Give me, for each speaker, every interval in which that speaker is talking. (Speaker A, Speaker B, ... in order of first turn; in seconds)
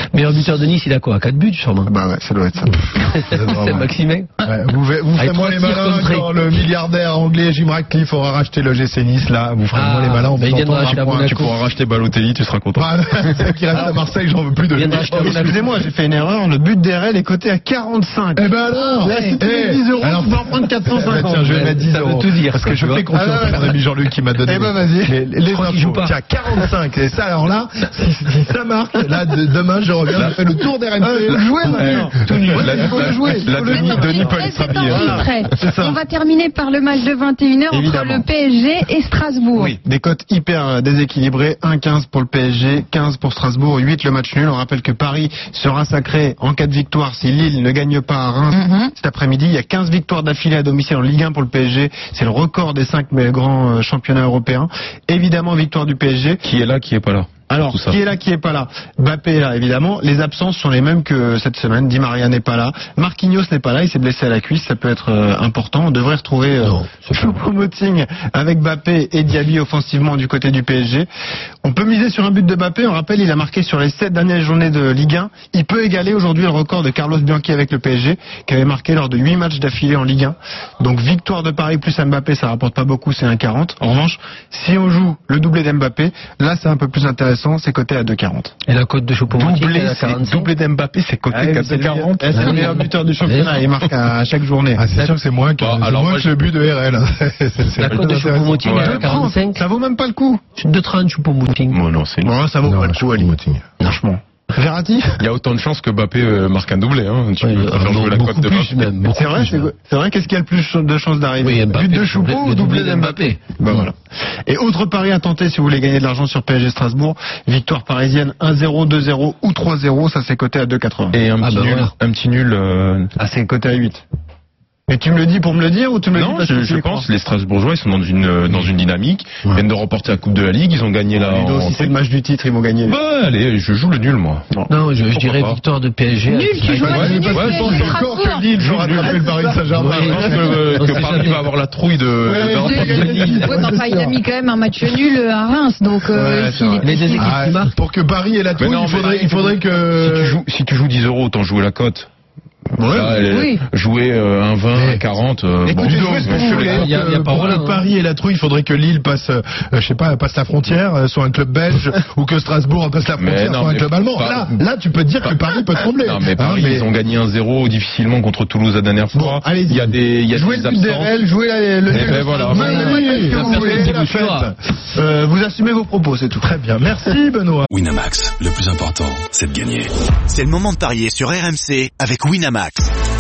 Speaker A: 0.1-1.9, 3.0-4.3, 5.2-6.4, 9.7-11.6, 14.7-15.7, 21.4-23.1, 25.5-26.2, 66.6-67.4, 88.7-90.5, 92.3-93.6, 97.8-99.6, 100.6-101.8, 107.4-109.7, 111.4-113.4, 121.4-121.9, 134.7-137.4, 139.7-141.5, 146.8-147.7, 156.6-157.8, 173.2-174.5
Speaker B: 1.9-2.8, 15.2-18.5, 19.0-21.7, 23.1-23.8, 24.4-25.2, 31.0-36.0, 37.7-38.3, 39.5-56.4, 57.5-71.1, 71.6-88.5, 91.3-94.8, 98.7-100.4, 102.2-105.1, 109.1-121.2, 123.2-124.0, 124.9-127.1, 131.1-133.0, 136.9-138.0, 138.8-139.6, 142.3-144.2, 152.8-153.2, 155.7-156.9, 169.1-174.0, 174.9-176.5
Speaker C: 3.3-3.9, 4.4-11.6, 12.8-15.6, 18.4-33.3, 94.8-98.6, 102.7-103.7, 137.3-140.7, 142.3-143.7, 146.1-150.4, 154.7-155.1, 155.7-166.9, 171.9-174.6, 176.4-177.7
Speaker D: 11.3-12.9, 31.7-35.3, 56.4-58.0, 89.3-92.8, 95.6-96.3, 98.6-99.0, 101.7-102.3, 105.2-109.0, 121.1-123.1, 126.1-131.9, 132.8-134.5, 135.1-135.6, 136.9-137.7, 138.5-139.2, 139.9-143.7, 148.6-152.1, 152.8-156.9, 163.2-164.6, 165.2-171.2, 171.9-172.8
Speaker E: 18.9-19.4, 33.6-39.8, 48.5-48.9, 136.3-138.5, 142.5-147.4, 153.3-153.6, 172.6-173.6
Speaker F: 177.7-179.9
Speaker G: 180.3-182.9